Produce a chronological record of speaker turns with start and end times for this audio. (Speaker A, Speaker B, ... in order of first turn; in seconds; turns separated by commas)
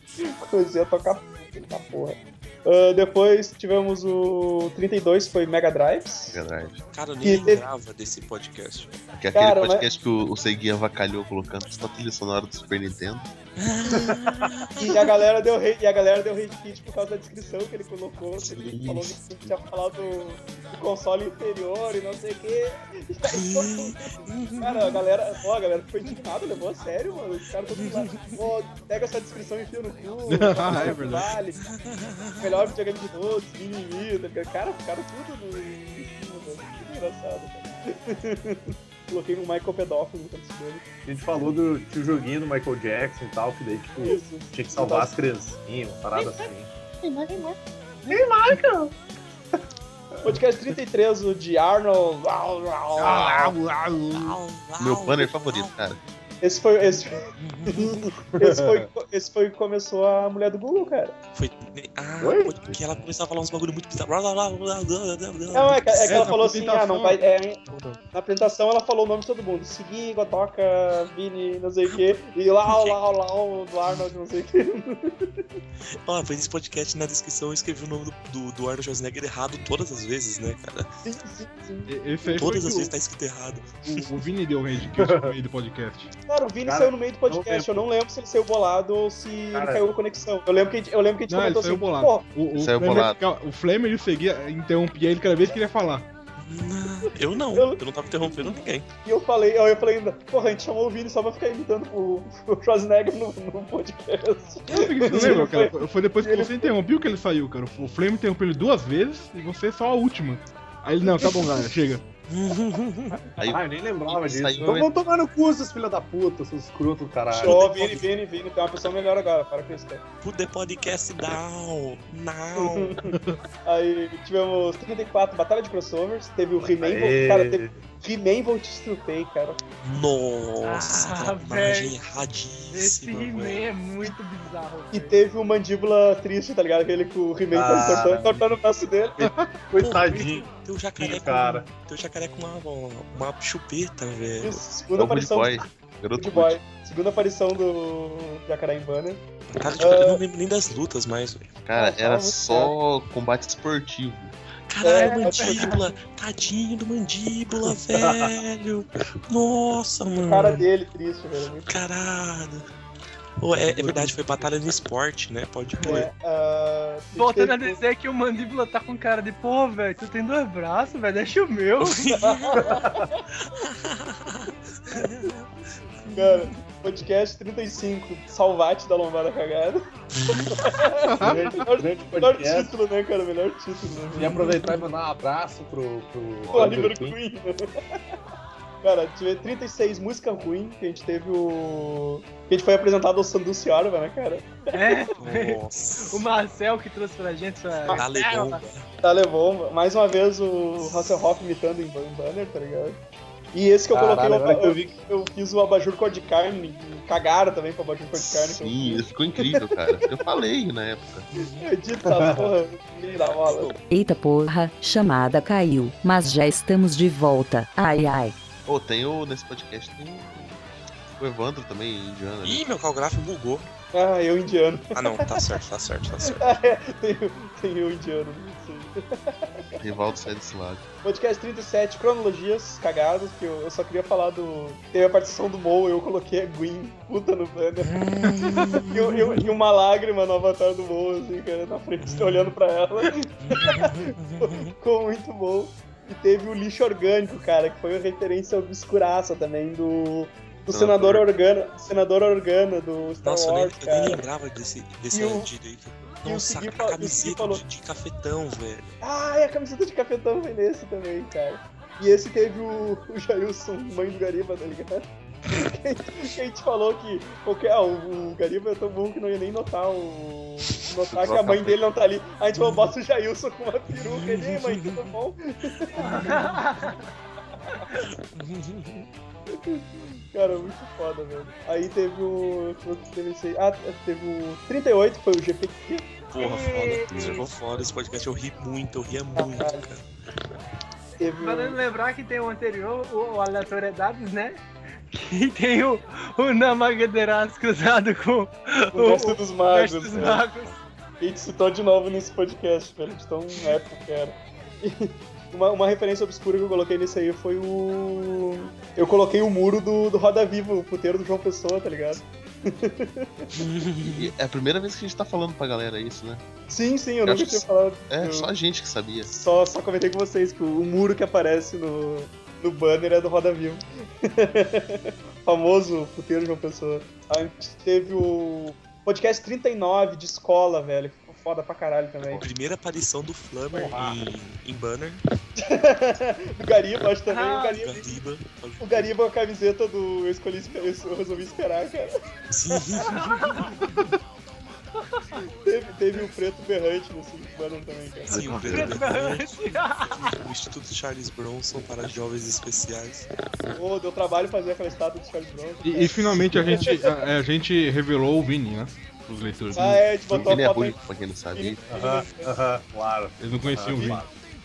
Speaker A: 0.2-6.4, Speaker B: 6.3-6.8, Speaker C: 6.9-9.0, Speaker A: 7.2-7.6, Speaker B: 9.2-13.3, Speaker A: 9.3-9.9, Speaker C: 13.6-15.0, Speaker D: 13.9-14.2, Speaker A: 14.8-24.0, Speaker B: 18.4-19.5, Speaker C: 23.3-25.0, Speaker A: 24.6-31.6, Speaker C: 27.8-28.4, Speaker E: 30.3-31.3, Speaker C: 31.6-32.5, Speaker A: 32.4-40.8, Speaker D: 41.0-47.5, Speaker A: 44.0-45.1, Speaker D: 48.0-48.9, Speaker A: 50.2-53.3, Speaker D: 53.0-54.4, Speaker B: 53.1-53.5, Speaker C: 54.1-55.7, Speaker B: 54.8-56.0, Speaker A: 56.4-61.1, Speaker C: 57.4-57.9, Speaker D: 58.4-58.9, Speaker C: 61.3-66.3, Speaker D: 62.2-62.5, Speaker A: 65.5-75.5, Speaker E: 66.0-68.0, Speaker C: 72.7-73.0, Speaker C: 76.0-80.9, Speaker A: 81.0-82.6, Speaker E: 81.9-82.9, Speaker C: 82.4-84.1, Speaker E: 83.8-86.1, Speaker D: 85.0-85.3, Speaker A: 86.3-92.2, Speaker D: 86.7-87.8, Speaker D: 89.5-89.8, Speaker E: 91.3-96.1, Speaker B: 92.5-93.2, Speaker C: 96.4-98.9, Speaker A: 97.5-98.4, Speaker A: 99.0-106.7, Speaker E: 104.7-112.0, Speaker C: 112.3-113.2, Speaker B: 113.4-114.9, Speaker D: 113.4-118.1, Speaker A: 117.3-120.0, Speaker C: 117.4-118.0, Speaker C: 120.2-123.0, Speaker A: 122.6-129.6, Speaker E: 123.1-123.4, Speaker D: 126.8-127.8, Speaker C: 129.8-133.6, Speaker F: 130.6-132.0, Speaker F: 132.7-135.1, Speaker A: 134.9-139.2, Speaker D: 137.5-138.6, Speaker D: 139.2-140.4, Speaker E: 139.2-139.5, Speaker C: 139.8-144.6, Speaker D: 141.0-141.7, Speaker A: 144.4-145.6, Speaker B: 144.9-146.6, Speaker A: 146.2-149.2, Speaker C: 149.5-151.6, Speaker A: 149.8-150.2, Speaker B: 151.7-154.3, Speaker A: 151.7-152.7, Speaker C: 154.7-160.7, Speaker A: 154.8-155.8, Speaker F: 155.0-155.8, Speaker D: 158.0-158.3, Speaker A: 160.2-161.7, Speaker C: 161.7-162.7, Speaker C: 163.4-166.1, Speaker D: 163.5-164.5, Speaker A: 165.8-167.8, Speaker F: 167.2-172.1, Speaker C: 171.8-172.8, Speaker A: 172.1-173.2, Speaker D: 172.6-173.0, Speaker C: 173.4-175.5, Speaker C: 176.0-176.3, Speaker A: 176.1-179.8, Speaker C: 180.2-180.5, Speaker A: 180.5-184.5, Speaker E: 181.1-181.4, Speaker D: 181.2-182.7, Speaker D: 184.1-187.2, Speaker A: 186.5-187.6, Speaker A: 188.8-195.0, Speaker F: 194.7-198.5, Speaker C: 195.2-196.2, Speaker C: 197.9-198.8, Speaker A: 199.0-203.0, Speaker A: 203.5-209.0, Speaker D: 203.9-205.0, Speaker B: 208.2-211.3, Speaker C: 211.3-211.7, Speaker A: 211.4-213.7, Speaker D: 212.1-212.5, Speaker C: 213.2-213.8, Speaker G: 213.9-218.3, Speaker B: 218.7-220.6, Speaker B: 221.1-222.6, Speaker C: 222.4-223.7, Speaker A: 223.9-225.4, Speaker C: 224.9-226.6, Speaker A: 226.2-229.3, Speaker B: 229.8-230.8, Speaker A: 231.0-237.9, Speaker C: 237.8-239.4, Speaker A: 238.9-254.2, Speaker C: 242.0-242.6, Speaker C: 243.4-244.7, Speaker B: 250.7-251.2, Speaker C: 253.2-258.9, Speaker A: 255.1-255.5, Speaker A: 256.2-257.6, Speaker A: 259.0-276.6, Speaker B: 271.1-271.8, Speaker C: 272.6-272.9, Speaker C: 274.0-275.1, Speaker F: 276.0-277.0, Speaker C: 278.3-279.1, Speaker A: 279.5-286.1, Speaker C: 286.3-290.0, Speaker F: 286.4-287.4, Speaker B: 286.8-287.5, Speaker A: 289.4-289.9, Speaker A: 291.2-291.8, Speaker F: 291.4-300.7, Speaker A: 298.9-300.4, Speaker A: 301.2-313.5, Speaker C: 313.5-314.3, Speaker B: 314.0-316.4, Speaker A: 316.7-318.5, Speaker B: 317.2-319.3, Speaker A: 319.3-332.4, Speaker C: 332.3-335.2, Speaker D: 333.7-334.1, Speaker A: 335.6-338.1, Speaker F: 337.3-337.8, Speaker C: 337.8-339.1, Speaker A: 338.8-342.1, Speaker C: 342.5-343.5, Speaker F: 343.1-343.7, Speaker A: 345.6-348.4, Speaker C: 348.3-353.3, Speaker B: 348.3-349.0, Speaker F: 348.6-350.3, Speaker A: 353.7-357.1, Speaker E: 355.8-360.2, Speaker A: 359.7-361.0, Speaker B: 360.3-361.8, Speaker A: 361.5-362.5, Speaker D: 361.9-364.3, Speaker E: 363.4-364.2